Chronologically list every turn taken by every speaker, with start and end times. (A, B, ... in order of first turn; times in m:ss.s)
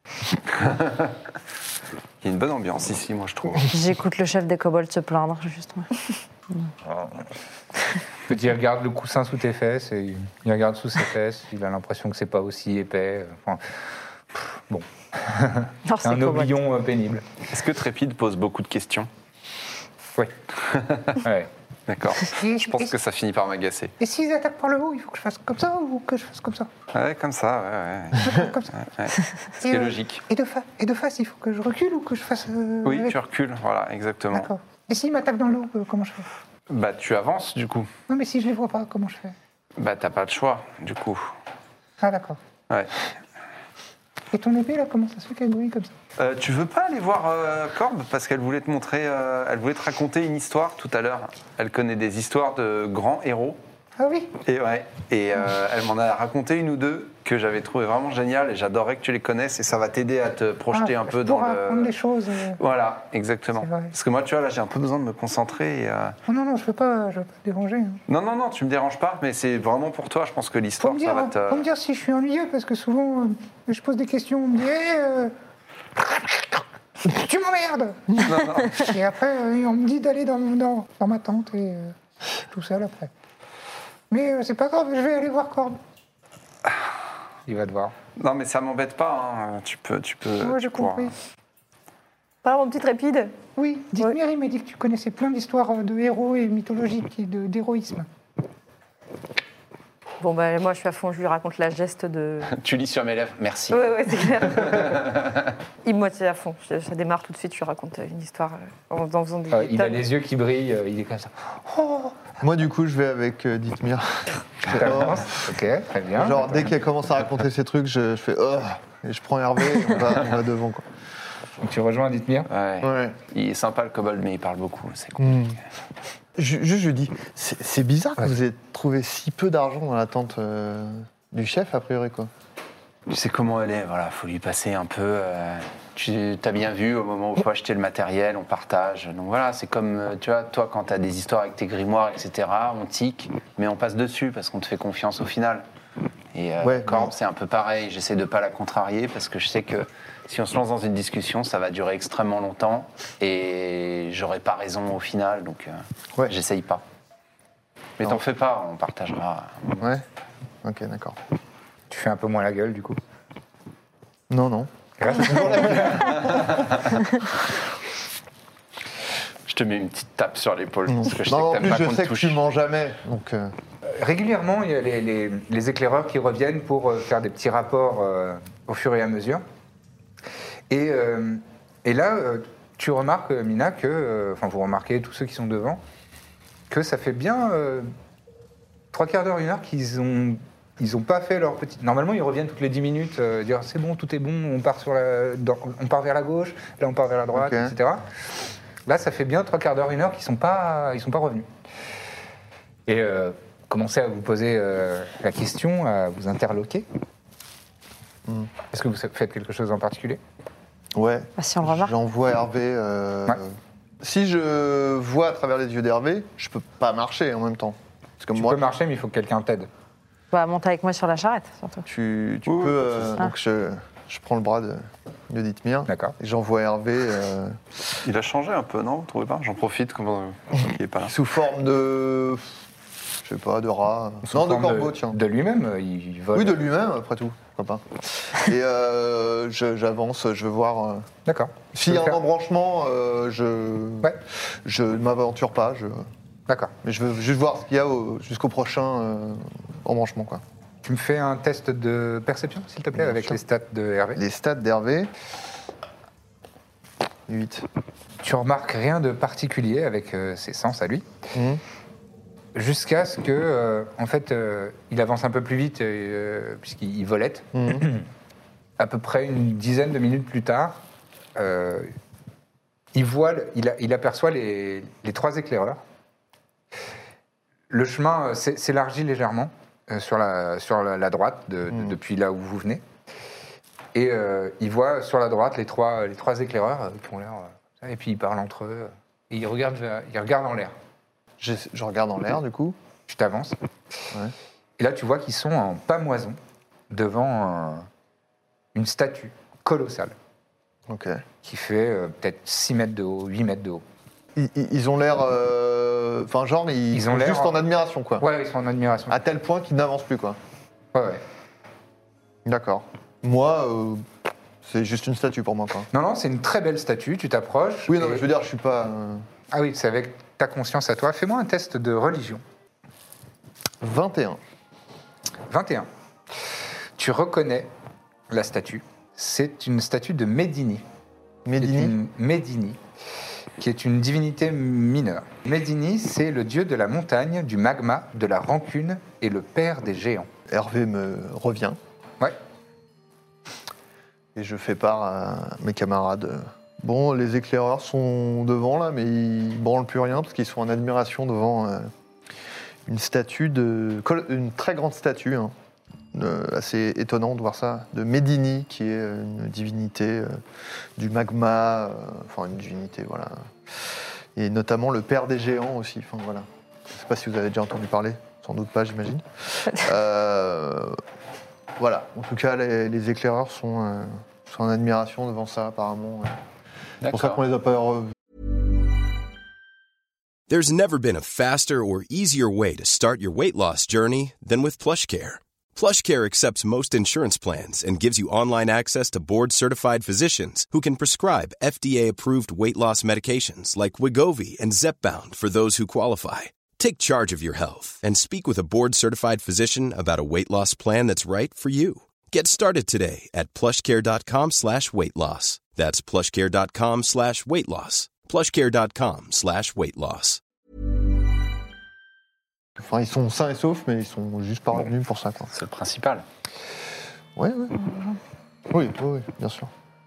0:00.5-0:01.1 A
0:02.2-0:03.7 A
0:03.7-0:05.9 B
0:08.3-0:13.8 C
0:14.3-0:17.2 C
0:15.8-0:16.6 B
0:17.5-0:19.1 A
0:20.6-0:21.2 A
0:21.2-0:21.5 C
0:21.9-0:23.9 A
0:22.3-0:22.9 C
0:24.0-0:26.7 C
0:26.9-0:30.2 A
0:28.2-0:28.7 C
0:29.6-0:33.1 C
0:32.8-0:34.5 A
0:34.3-0:36.3 C
0:36.7-0:37.9 A
0:38.1-0:39.3 C
0:39.8-0:41.3 A
0:42.0-0:42.4 C
0:44.3-0:45.9 C
0:46.2-0:53.6 A
0:54.0-0:54.3 C
0:54.4-1:01.9 A
1:00.7-1:02.6 C
1:02.6-1:06.2 A
1:03.6-1:03.9 C
1:06.3-1:08.0 C
1:08.1-1:11.7 A
1:10.8-1:15.3 C
1:16.0-1:23.1 C
1:18.2-1:18.9 A
1:24.1-1:25.8 C
1:27.5-1:27.9 C
1:28.2-1:31.1 A
1:30.4-1:31.1 C
1:32.4-1:33.4 D
1:33.6-1:38.1 C
1:40.2-1:42.5 D
1:42.5-1:45.4 A
1:43.7-1:45.2 D
1:45.8-1:50.0 D
1:49.5-1:52.2 C
1:52.4-1:55.5 E
1:54.7-1:56.7 C
1:56.1-2:00.8 E
2:01.6-2:02.5 C
2:02.5-2:05.6 A
2:02.8-2:03.2 E
2:05.2-2:05.6 E
2:06.4-2:12.3 E
2:13.1-2:25.6 A
2:26.3-2:36.8 A
2:26.6-2:27.1 E
2:38.0-2:39.8 A
2:39.8-2:40.0 E
2:40.6-2:41.2 E
2:41.9-2:43.0 C
2:44.3-2:46.3 E
2:45.0-2:46.7 C
2:49.5-2:52.4 A
2:50.9-2:53.5 E
2:53.8-2:59.4 C
3:00.7-3:05.8 C
3:06.7-3:07.9 C
3:08.9-3:18.0 C
3:17.3-3:17.7 E
3:18.8-3:21.5 C
3:22.9-3:26.8 C
3:28.7-3:30.2 C
3:30.9-3:38.6 E
3:31.4-3:31.9 B
3:38.3-3:39.7 C
3:40.3-3:41.9 B
3:41.9-3:47.6 E
3:42.5-3:43.1 A
3:45.9-3:46.1 C
3:48.0-3:51.1 A
3:51.0-3:52.4 E
3:53.2-3:55.2 E
3:54.3-3:56.6 C
3:56.3-4:01.1 E
4:01.2-4:02.2 C
4:01.7-4:06.1 E
4:06.5-4:06.7 C
4:06.8-4:10.4 E
4:10.8-4:14.2 C
4:12.9-4:13.4 E
4:14.1-4:15.1 E
4:17.3-4:17.6 E
4:18.2-4:21.1 C
4:21.3-4:21.6 E
4:22.5-4:28.0 C
4:27.5-4:27.9 E
4:28.8-4:30.8 C
4:31.4-4:31.9 C
4:32.9-4:35.8 C
4:37.7-4:42.8 C
4:43.9-4:50.7 C
4:51.4-4:52.8 E
4:53.1-4:53.6 C
4:54.8-4:56.4 C
4:56.9-4:57.9 C
4:58.7-5:00.1 C
5:00.9-5:01.2 E
5:01.4-5:03.8 C
5:04.3-5:08.3 E
5:06.9-5:07.6 C
5:08.2-5:09.2 C
5:09.1-5:10.4 E
5:10.9-5:11.2 C
5:12.4-5:14.0 E
5:14.6-5:15.9 E
5:15.9-5:18.2 C
5:17.9-5:19.2 E
5:19.5-5:22.4 C
5:23.8-5:24.4 E
5:25.5-5:25.9 C
5:27.0-5:27.7 C
5:28.3-5:30.8 C
5:31.4-5:32.0 E
5:31.6-5:32.8 C
5:33.6-5:40.3 C
5:40.5-5:41.8 E
5:44.3-5:51.9 E
5:52.8-5:55.5 E
5:56.1-6:00.4 E
6:01.0-6:11.0 E
6:11.8-6:16.4 E
6:17.0-6:17.4 A
6:17.1-6:18.1 E
6:20.5-6:50.4 F
6:52.8-6:55.5 E
6:55.5-6:56.2 A
6:57.4-6:57.9 E
6:58.7-6:59.7 E